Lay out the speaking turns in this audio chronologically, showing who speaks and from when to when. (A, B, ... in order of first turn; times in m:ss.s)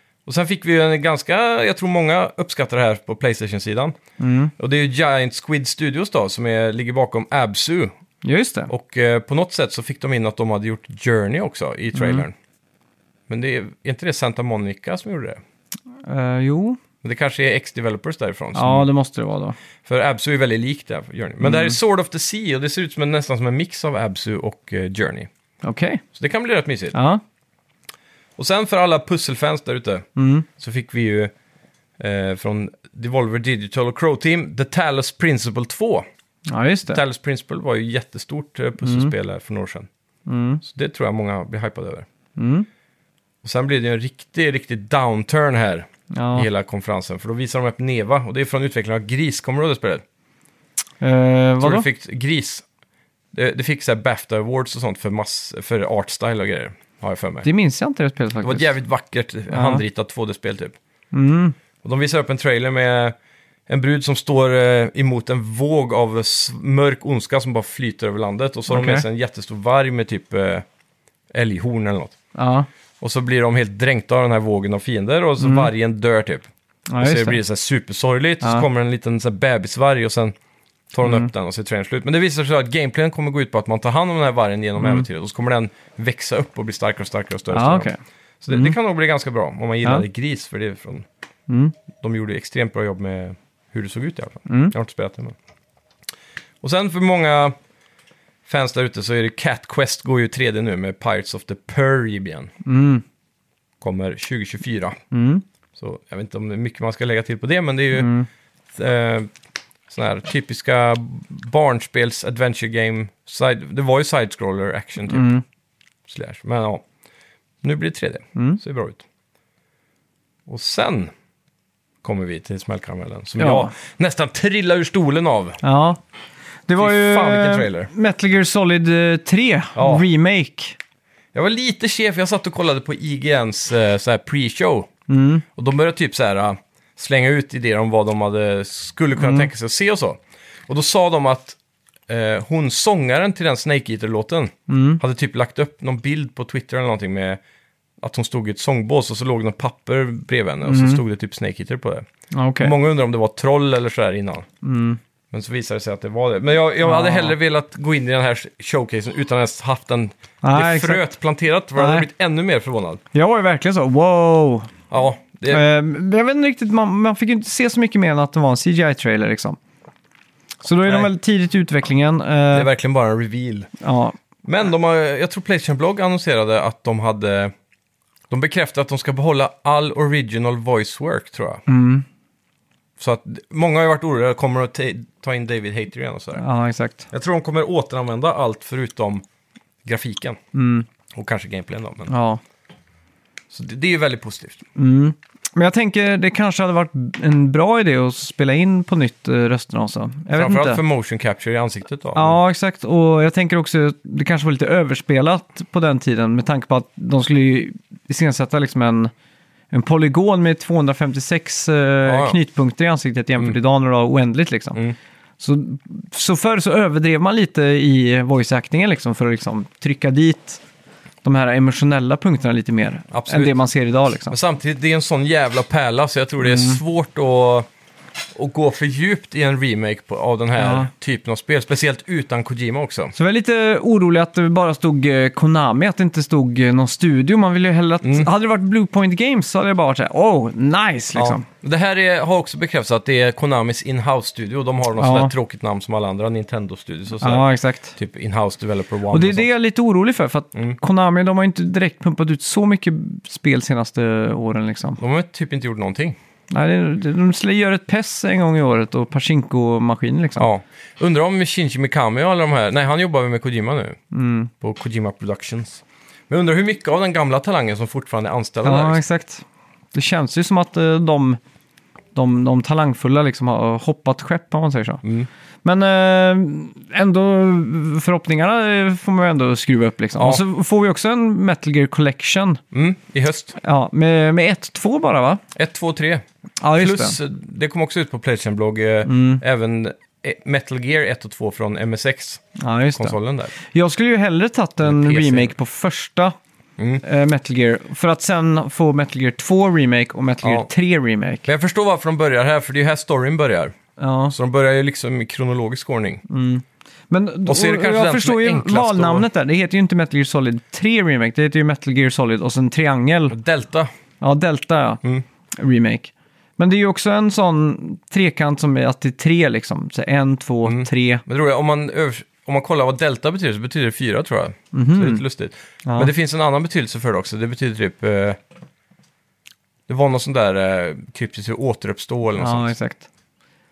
0:00.3-0:04.0 A
0:04.2-0:04.5 B
0:04.6-0:07.9 A
0:08.2-0:08.7 B
0:08.7-0:12.3 A
0:11.9-0:12.2 B
0:13.3-0:15.4 A
0:16.0-0:16.8 B
0:17.0-0:18.9 A
0:18.6-0:19.6 B
0:19.9-0:25.3 A
0:21.4-0:21.8 B
0:25.6-0:26.0 B
0:26.1-0:27.0 A
0:26.9-0:27.2 B
0:28.4-0:30.1 A
0:30.2-0:30.4 B
0:30.6-0:31.3 A
0:32.0-0:36.1 A
0:36.5-0:37.0 B
0:36.9-0:39.9 A
0:38.8-0:39.1 B
0:40.3-0:40.6 B
0:40.6-0:42.1 A
0:42.4-0:42.7 B
0:43.4-0:50.0 A
0:46.1-0:46.5 B
0:51.0-0:51.8 B
0:51.6-0:52.6 A
0:53.3-0:57.4 A
0:57.4-0:58.7 B
0:58.4-1:00.8 A
0:59.5-0:59.8 B
1:01.1-1:01.6 B
1:01.8-1:03.2 A
1:03.7-1:10.6 A
1:08.7-1:09.0 B
1:11.3-1:12.2 A
1:12.4-1:12.7 B
1:13.0-1:16.5 A
1:15.4-1:15.7 B
1:16.9-1:17.4 B
1:17.0-1:20.4 A
1:20.9-1:27.9 A
1:21.0-1:21.3 B
1:24.8-1:25.0 B
1:27.5-1:28.0 B
1:28.4-1:31.1 A
1:31.5-1:31.8 B
1:32.0-1:35.4 A
1:34.5-1:34.7 B
1:36.6-1:37.6 A
1:38.4-1:42.5 A
1:42.6-1:43.0 B
1:43.8-1:45.0 A
1:45.1-1:45.4 B
1:45.8-1:48.1 A
1:47.9-1:48.3 B
1:48.8-1:49.3 A
1:49.9-1:55.3 A
1:55.1-1:55.4 B
1:56.1-1:56.8 A
1:57.6-1:59.0 A
1:58.4-1:58.6 B
2:00.5-2:01.1 A
2:02.0-2:05.6 A
2:03.4-2:03.7 B
2:05.6-2:06.0 B
2:06.7-2:10.8 B
2:06.8-2:07.9 A
2:09.8-2:10.1 A
2:11.3-2:14.9 A
2:15.1-2:15.4 B
2:15.6-2:27.4 A
2:19.2-2:19.5 B
2:24.7-2:25.0 B
2:28.0-2:32.1 A
2:30.6-2:31.0 B
2:32.3-2:32.7 B
2:32.6-2:34.4 A
2:34.6-2:35.0 B
2:35.3-2:43.0 A
2:36.8-2:37.4 B
2:40.4-2:41.0 B
2:41.8-2:42.1 B
2:43.1-2:44.7 B
2:44.9-2:45.6 A
2:45.5-2:49.6 B
2:50.6-2:52.7 B
2:52.5-2:53.7 A
2:53.8-2:54.2 B
2:54.4-2:57.5 A
2:58.3-3:01.6 A
3:01.7-3:02.0 B
3:03.0-3:06.4 A
3:06.4-3:07.1 B
3:07.1-3:09.2 A
3:09.8-3:10.4 A
3:10.5-3:10.9 B
3:11.1-3:12.1 A
3:12.1-3:12.4 B
3:13.5-3:14.6 A
3:14.8-3:20.8 B
3:20.3-3:22.4 A
3:22.1-3:29.1 B
3:29.7-3:34.8 B
3:32.1-3:32.4 A
3:35.4-3:40.6 B
3:41.2-3:44.4 B
3:43.1-3:43.6 A
3:44.3-3:47.7 A
3:46.4-3:46.8 B
3:48.3-3:53.1 A
3:50.6-3:50.9 B
3:53.1-4:01.4 B
3:58.0-3:58.3 A
4:01.1-4:09.5 A
4:05.0-4:05.3 B
4:07.2-4:07.9 B
4:09.1-4:15.0 B
4:15.0-4:16.2 A
4:16.5-4:20.5 B
4:20.4-4:24.0 A
4:24.1-4:24.5 B
4:24.6-4:29.0 A
4:28.6-4:31.4 B
4:32.1-4:35.0 B
4:35.0-4:35.3 A
4:35.6-4:42.6 B
4:40.2-4:40.4 A
4:42.7-4:43.6 A
4:43.6-4:45.4 B
4:45.6-4:46.2 A
4:46.6-4:47.2 B
4:46.8-4:52.4 A
4:49.1-4:49.4 B
4:52.6-4:56.4 B
4:52.9-4:53.5 A
4:54.8-4:55.5 A
4:56.8-4:57.0 A
4:57.0-5:01.5 B
5:00.4-5:00.7 A
5:01.4-5:03.8 A
5:04.0-5:04.3 B
5:04.3-5:06.2 A
5:06.3-5:13.4 B
5:07.4-5:09.3 A
5:13.3-5:13.9 A
5:14.2-5:15.0 B
5:15.5-5:21.2 B
5:20.6-5:28.4 A
5:24.7-5:25.2 B
5:25.8-5:26.1 B
5:29.9-5:32.7 A
5:32.4-5:33.0 B